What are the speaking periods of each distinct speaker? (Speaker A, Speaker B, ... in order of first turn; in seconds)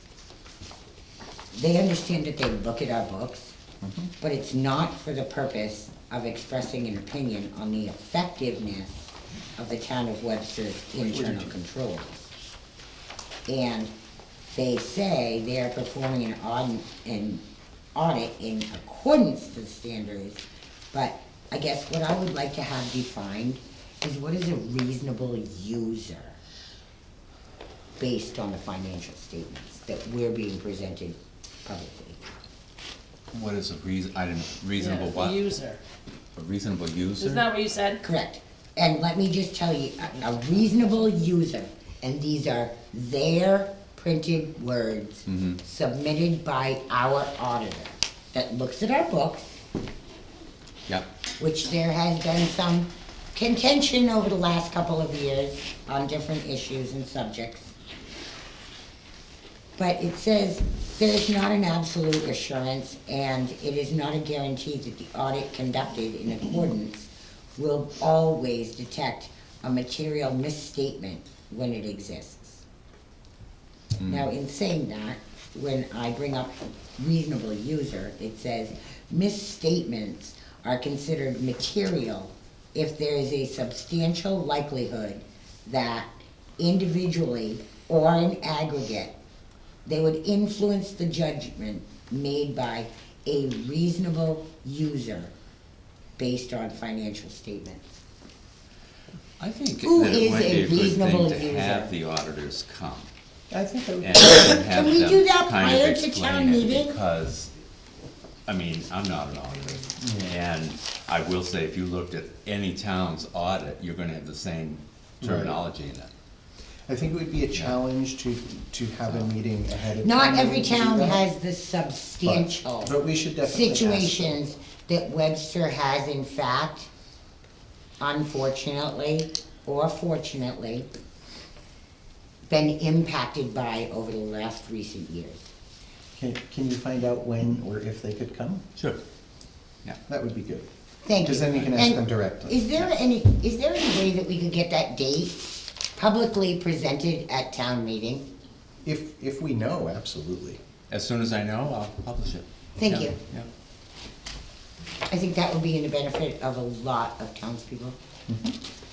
Speaker A: 1.5-3.5, 4.2-12.3, 13.5-13.9, 14.5-17.4, 17.9-26.4, 28.0-32.2, 38.0-49.6, 51.4-57.7, 59.8-72.6, 74.0-89.1, 89.8-95.3, 96.2-97.8, 99.8-101.9, 104.6-106.9, 120.0-126.9, 128.0-130.9, 132.5-135.4, 141.0-148.2, 152.8-153.2, 155.1-157.9
Speaker B: 3.8-4.1, 11.1-11.5, 103.5-104.5, 110.0-110.4, 115.2-115.6, 116.9-121.2, 122.2-124.3, 136.1-138.6, 140.1-140.7, 141.2-142.6, 148.8-150.6, 158.3-158.6
Speaker C: 33.3-35.4, 36.4-37.5, 45.3-45.6, 74.0-74.3, 99.4-103.1, 104.0-107.5, 108.5-116.1, 150.9-153.5
Speaker D: 34.8-35.8, 37.2-38.0